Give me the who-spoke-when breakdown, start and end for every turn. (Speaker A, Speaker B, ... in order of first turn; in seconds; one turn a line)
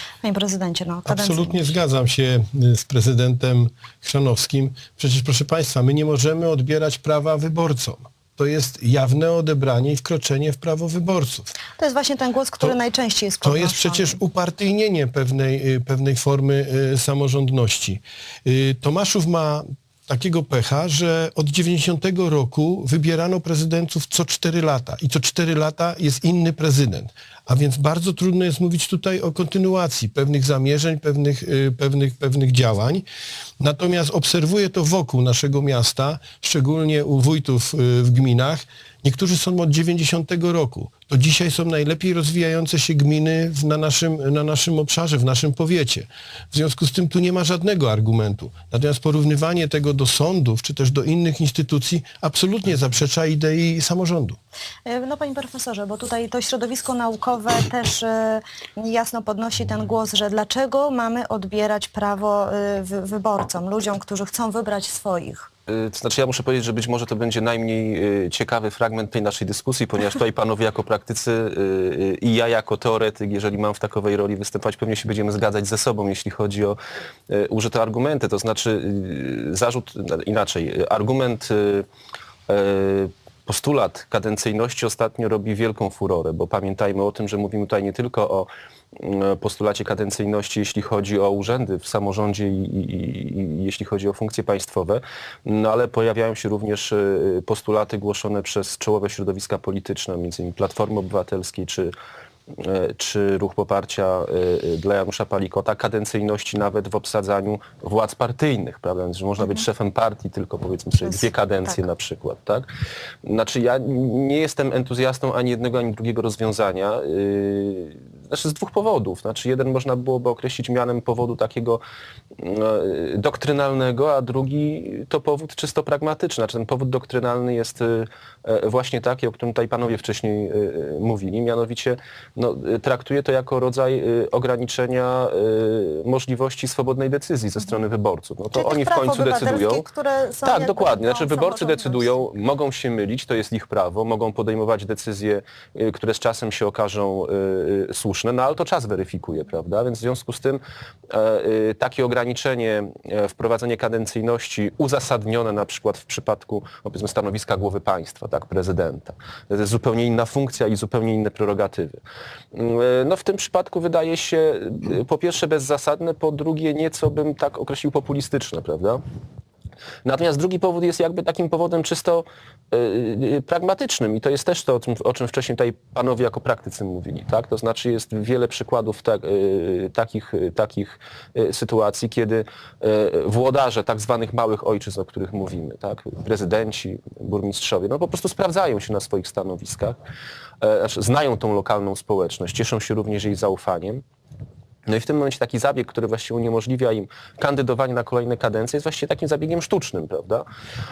Speaker A: 0.2-1.7
Speaker B: 1.1-11.6
Speaker A: 11.8-14.2
Speaker B: 13.4-33.1
Speaker B: 33.6-54.4
Speaker A: 54.9-65.5
Speaker C: 65.7-76.8
Speaker C: 77.3-81.9
Speaker C: 82.5-101.9
Speaker C: 102.5-112.7
Speaker A: 111.1-111.8
Speaker C: 113.2-121.8
Speaker C: 122.4-139.9
Speaker A: 138.6-142.3
Speaker C: 140.4-162.0
Speaker C: 162.5-169.0
Speaker C: 170.1-190.0
Speaker C: 190.6-194.0
Speaker C: 194.9-200.4